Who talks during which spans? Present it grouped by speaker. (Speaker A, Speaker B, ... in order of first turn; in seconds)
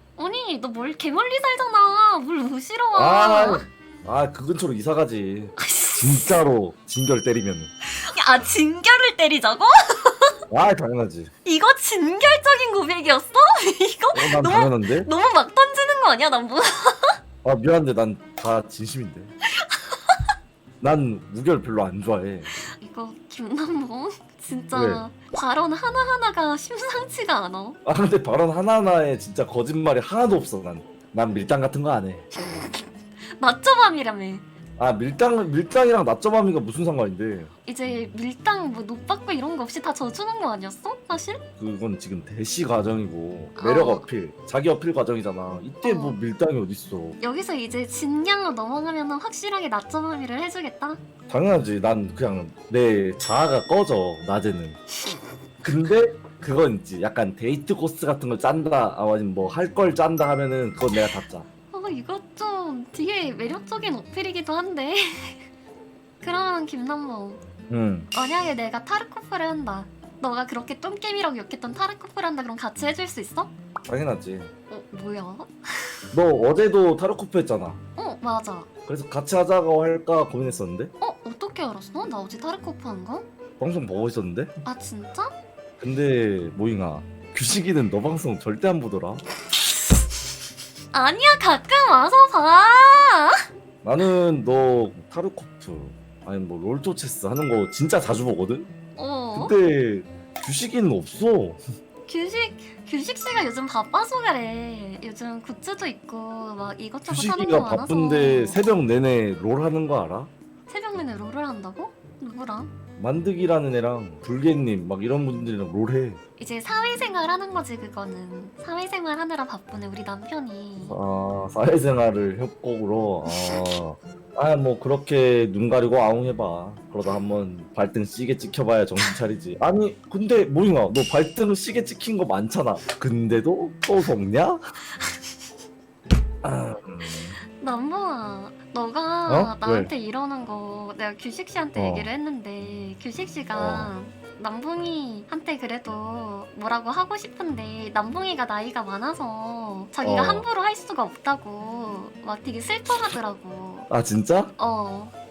Speaker A: 0.2-3.7, 5.6-6.4, 8.0-10.3, 11.4-17.2, 19.6-20.2, 22.8-27.8, 33.4-34.5, 37.7-41.5, 43.6-44.1, 45.8-46.2, 47.2-51.0, 61.7-65.5, 66.2-67.4, 68.1-73.5, 74.7-76.1, 78.0-78.7, 81.0-83.3, 84.6-85.3, 90.9-93.5, 99.0-99.5, 102.1-108.6, 110.7-112.7, 116.4-121.0, 123.3-123.8, 135.0-135.3, 137.6-153.9, 154.6-155.1
Speaker B: 2.9-7.7, 10.5-11.3, 14.1-15.1, 17.4-19.3, 20.8-22.5, 24.7-25.0, 27.9-32.3, 34.8-37.5, 41.6-47.2, 51.3-54.8, 55.6-61.5, 67.7-68.1, 73.9-74.5, 76.1-77.8, 78.9-80.9, 83.6-84.5, 85.8-89.2, 93.8-98.7, 99.3-101.6, 107.1-110.3, 113.0-116.2, 120.9-134.6, 136.4-137.4, 139.3-139.9, 141.8-142.1, 143.5-143.9, 150.0-150.5, 153.9-154.5